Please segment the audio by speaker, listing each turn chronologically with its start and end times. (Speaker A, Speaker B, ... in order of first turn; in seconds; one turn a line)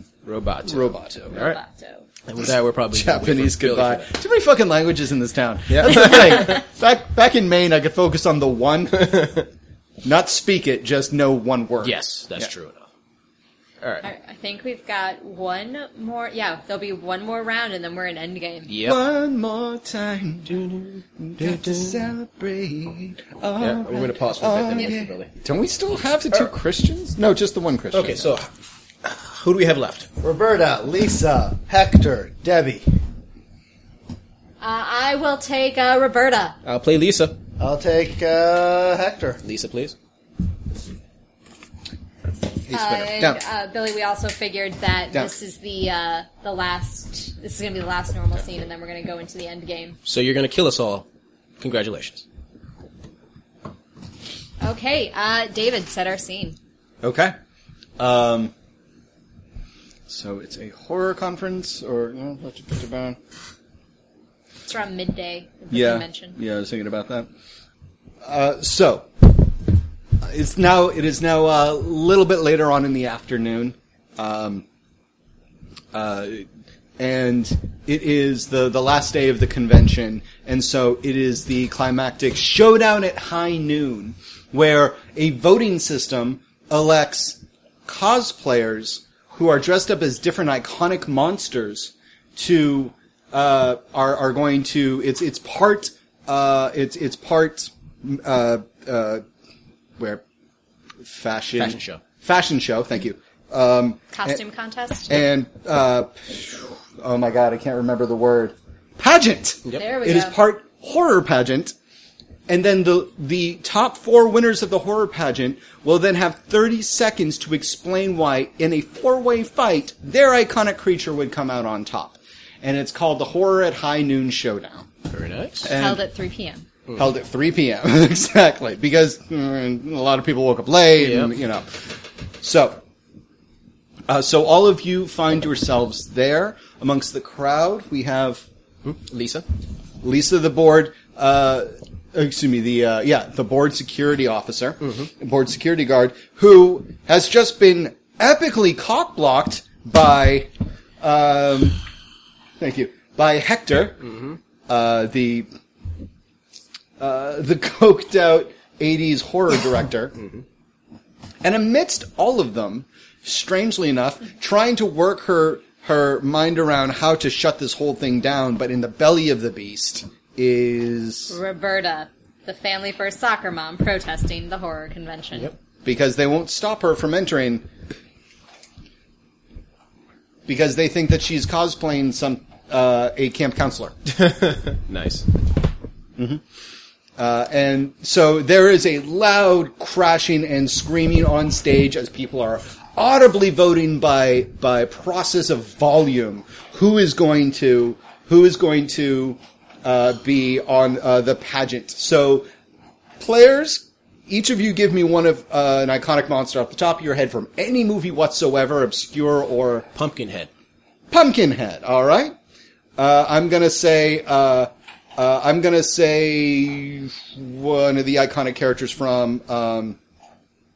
Speaker A: 0.2-1.6
Speaker B: 0.6-1.3
Speaker C: 1.3-2.0
Speaker A: 2.2-4.1
Speaker B: 2.9-9.3
Speaker A: 5.7-6.6
Speaker A: 9.0-9.4
Speaker B: 10.0-12.5
Speaker A: 11.8-12.8
Speaker C: 14.0-18.7
Speaker A: 18.7-19.0
Speaker B: 18.8-20.6
Speaker A: 20.4-22.0
Speaker B: 21.2-28.3
Speaker A: 23.6-25.3
Speaker A: 27.9-28.5
Speaker A: 29.0-30.1
Speaker D: 30.2-32.8
Speaker C: 34.6-36.6
Speaker A: 36.6-37.4
Speaker D: 37.6-39.4
Speaker A: 39.4-39.9
Speaker B: 42.7-43.4
Speaker C: 42.7-50.0
Speaker A: 50.0-51.0
Speaker A: 51.6-52.2
Speaker C: 54.6-56.6
Speaker B: 57.0-57.3
Speaker B: 58.0-58.5
Speaker B: 60.1-63.2
Speaker C: 64.7-66.4
Speaker B: 65.7-67.3
Speaker B: 68.2-69.3
Speaker B: 70.2-74.6
Speaker B: 75.9-76.5
Speaker B: 77.0-99.2
Speaker B: 101.0-104.4
Speaker A: 101.6-102.0
Speaker C: 104.1-105.2
Speaker B: 105.1-111.7
Speaker C: 109.8-110.3
Speaker B: 112.5-124.9
Speaker A: 125.1-125.7
Speaker B: 125.6-126.0
Speaker C: 125.7-126.7
Speaker B: 126.9-132.8
Speaker A: 130.9-131.3
Speaker B: 134.1-138.4
Speaker A: 138.8-139.4
Speaker B: 140.0-150.5
Speaker B: 151.0-151.8
Speaker B: 152.6-154.1
Speaker B: 154.7-155.5
Speaker B: 157.0-160.2
Speaker B: 161.4-171.3
Speaker C: 171.3-175.5
Speaker B: 175.8-177.7
Speaker B: 180.5-183.9
Speaker A: 184.1-185.2
Speaker B: 186.2-186.4
Speaker B: 187.2-202.5
Speaker B: 203.2-209.9
Speaker A: 209.9-210.5
Speaker B: 211.1-212.3
Speaker B: 213.0-220.0